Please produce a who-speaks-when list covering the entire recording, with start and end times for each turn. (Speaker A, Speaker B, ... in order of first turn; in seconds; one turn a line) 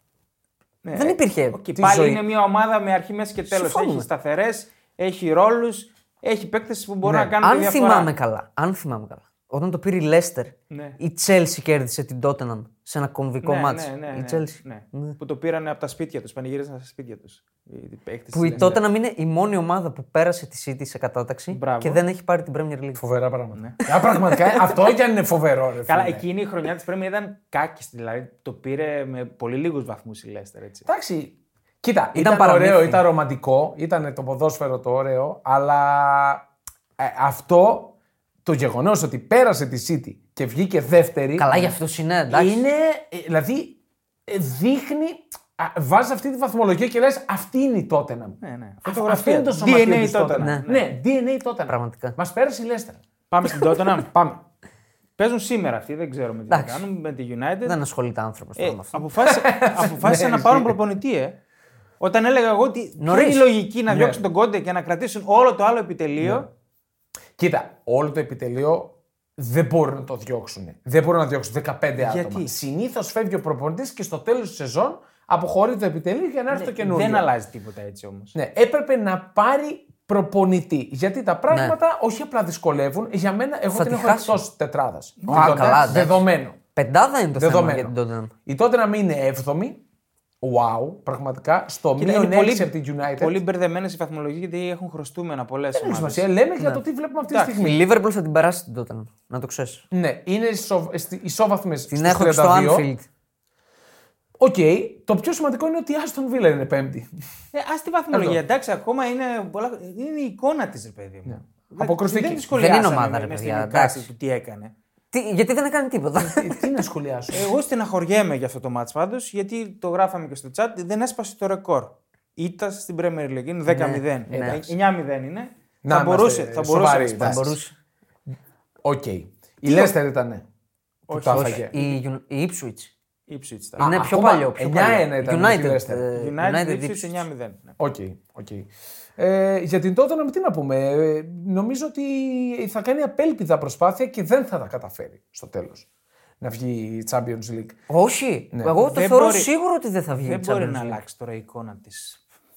Speaker A: 0.8-8.1
Speaker B: 0.9-1.6
Speaker C: 1.8-2.2
Speaker B: 3.5-4.1
Speaker C: 7.0-7.4
Speaker B: 7.4-15.2
Speaker A: 10.7-11.0
Speaker A: 13.4-18.7
Speaker B: 18.3-23.0
Speaker C: 18.4-18.8
Speaker A: 21.5-22.0
Speaker C: 23.0-26.2
Speaker B: 23.9-24.3
Speaker A: 25.9-30.9
Speaker C: 30.9-36.5
Speaker B: 32.1-33.0
Speaker C: 37.0-37.9
Speaker C: 38.5-41.7
Speaker B: 41.4-42.6
Speaker C: 42.3-53.0
Speaker A: 48.4-50.8
Speaker B: 50.4-50.7
Speaker B: 51.7-52.2
Speaker A: 53.3-54.1
Speaker C: 54.0-54.4
Speaker A: 55.2-57.8
Speaker B: 56.5-56.8
Speaker B: 57.7-59.0
Speaker A: 58.6-61.4
Speaker C: 59.3-60.8
Speaker A: 62.0-66.5
Speaker B: 63.0-63.5
Speaker C: 63.9-64.2
Speaker C: 66.2-66.5
Speaker C: 67.4-77.3
Speaker A: 72.0-72.5
Speaker A: 76.5-78.3
Speaker C: 78.3-86.6
Speaker B: 83.7-84.4
Speaker A: 85.2-85.8
Speaker B: 85.3-86.2
Speaker B: 86.8-88.3
Speaker C: 87.3-87.9
Speaker C: 88.5-89.8
Speaker C: 90.4-93.4
Speaker A: 92.0-96.3
Speaker C: 95.7-97.8
Speaker A: 97.3-97.6
Speaker B: 97.6-99.8
Speaker C: 99.9-102.9
Speaker B: 101.9-103.1
Speaker C: 104.4-107.1
Speaker A: 107.5-114.7
Speaker C: 108.1-108.4
Speaker C: 111.3-112.5
Speaker B: 112.5-114.1
Speaker B: 115.1-116.6
Speaker C: 116.2-117.6
Speaker A: 117.3-127.5
Speaker B: 123.7-124.7
Speaker C: 125.8-127.6
Speaker B: 127.2-127.7
Speaker C: 128.8-130.4
Speaker C: 131.1-131.7
Speaker A: 131.1-132.0
Speaker B: 131.2-132.9
Speaker A: 133.3-133.9
Speaker C: 133.8-136.1
Speaker B: 133.8-137.2
Speaker A: 136.2-137.8
Speaker C: 137.8-145.9
Speaker C: 146.4-147.8
Speaker B: 147.9-151.0
Speaker A: 148.8-149.5
Speaker A: 150.2-152.2